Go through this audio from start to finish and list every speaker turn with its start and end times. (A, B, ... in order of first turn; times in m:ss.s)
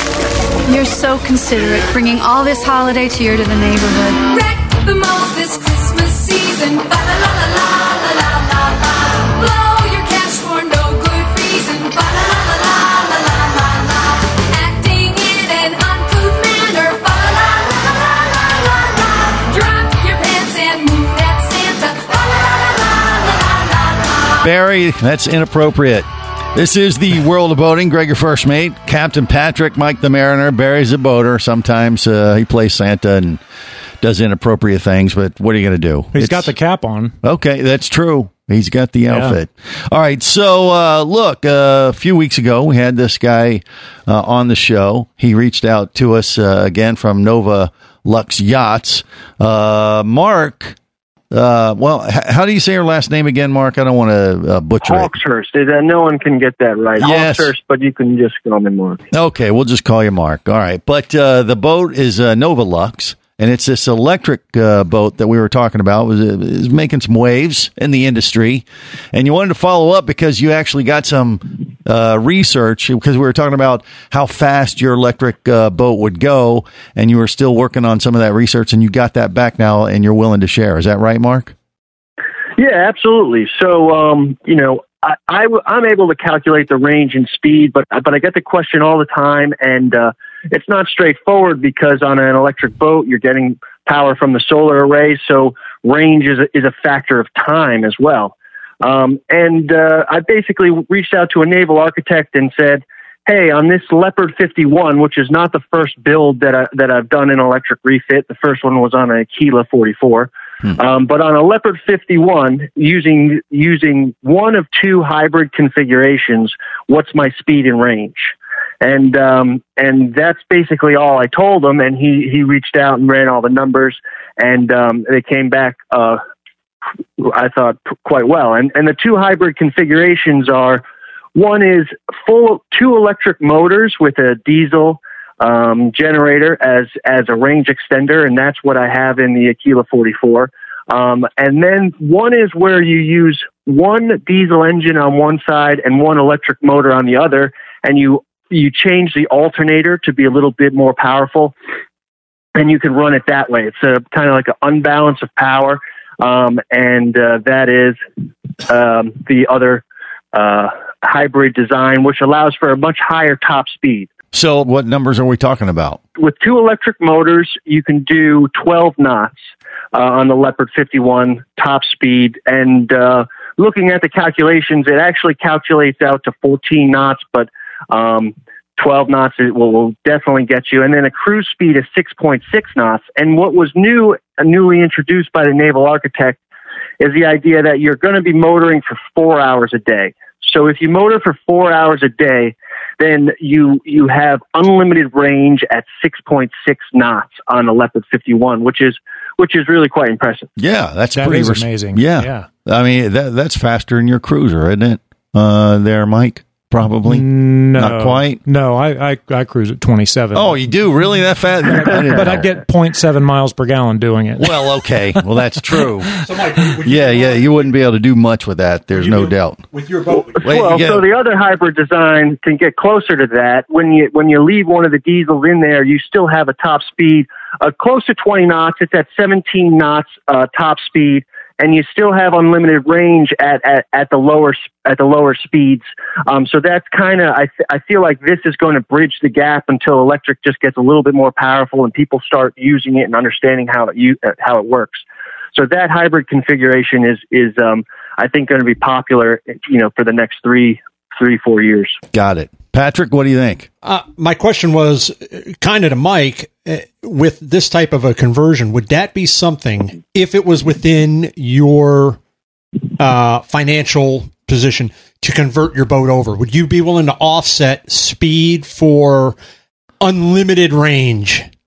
0:00.7-0:04.2 A
0:04.2-0:24.4 B
0:24.4-0:33.4 C
0:34.0-0:36.5 C
0:36.1-0:37.2 D
0:37.2-0:50.8 C
0:39.1-0:39.4 D
0:51.3-0:55.1 C
0:54.8-0:59.0 E
0:57.0-0:57.5 C
0:59.1-1:21.5 C
1:22.6-2:06.2 E
2:07.2-2:31.6 E
2:32.6-2:38.0 E
2:38.7-2:39.8 E
2:40.3-2:44.1 E
2:44.3-2:46.0 C
2:46.2-2:49.4 E
2:49.9-3:06.4 E
3:07.0-3:20.5 E
3:20.6-3:28.4 C
3:21.1-3:22.5 D
3:27.0-3:30.6 D
3:30.3-3:32.4 C
3:31.6-3:34.6 D
3:34.4-3:36.1 C
3:36.2-3:37.7 F
3:36.8-3:39.6 C
3:38.9-3:40.8 F
3:40.4-4:05.0 E
3:40.4-3:41.0 C
4:05.6-4:12.0 E
4:12.1-4:13.7 C
4:13.8-4:22.2 F
4:23.0-4:29.4 F
4:30.0-4:31.4 F